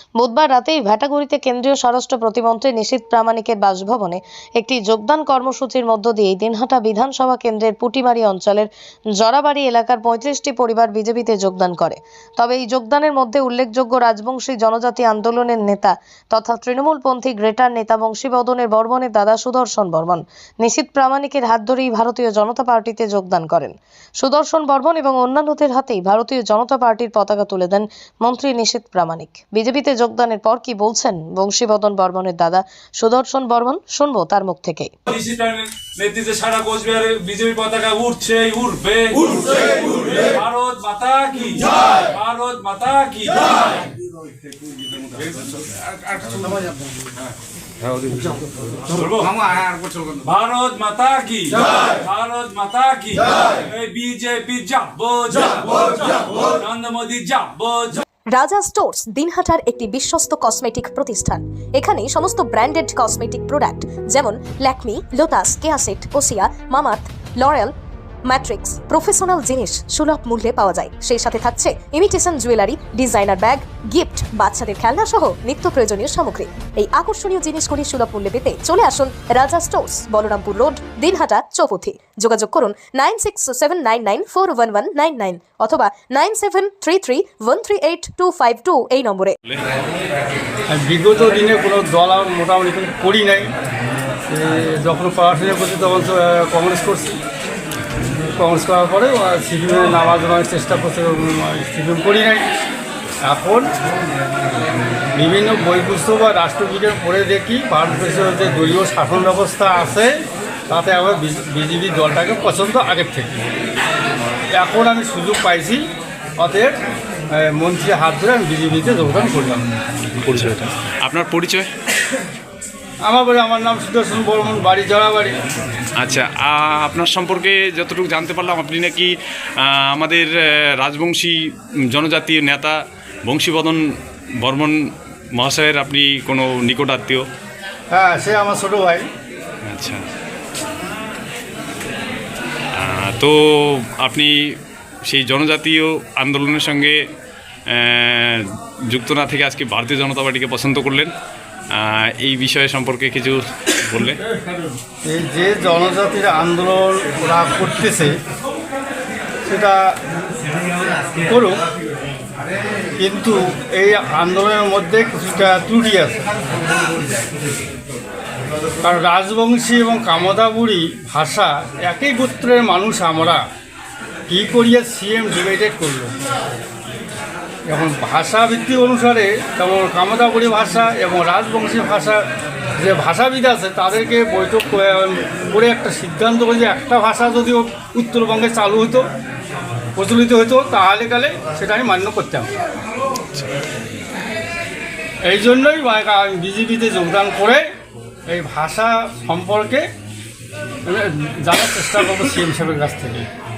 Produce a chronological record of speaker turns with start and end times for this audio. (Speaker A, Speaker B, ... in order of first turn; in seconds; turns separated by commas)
Speaker A: 0.2-34.9, Speaker B: 35.1-43.8, Speaker B: 44.9-46.7, Speaker B: 48.8-58.0, Speaker C: 58.3-67.7, Speaker C: 68.3-89.4, Speaker D: 90.7-93.5, Speaker D: 94.3-97.2, Speaker D: 98.3-102.5, Speaker D: 103.2-103.7, Speaker D: 105.2-110.2, Speaker D: 110.7-113.4, Speaker D: 114.5-115.8, Speaker D: 116.4-116.8, Speaker D: 117.3-119.7, Speaker E: 120.2-121.7, Speaker D: 123.0-125.4, Speaker E: 126.0-133.8, Speaker E: 134.4-134.8, Speaker E: 135.3-137.2, Speaker D: 137.9-139.1, Speaker E: 139.7-140.0, Speaker E: 142.8-147.0, Speaker E: 147.7-151.1, Speaker E: 151.7-154.2, Speaker D: 155.0-158.2, Speaker D: 159.4-159.8, Speaker D: 161.3-161.6, Speaker D: 163.0-166.2, Speaker D: 168.8-173.4, Speaker D: 174.3-176.1, Speaker D: 177.7-182.2, Speaker D: 182.8-189.1, Speaker D: 189.9-192.5, Speaker D: 195.2-197.6, Speaker D: 198.3-199.8, Speaker D: 200.8-203.3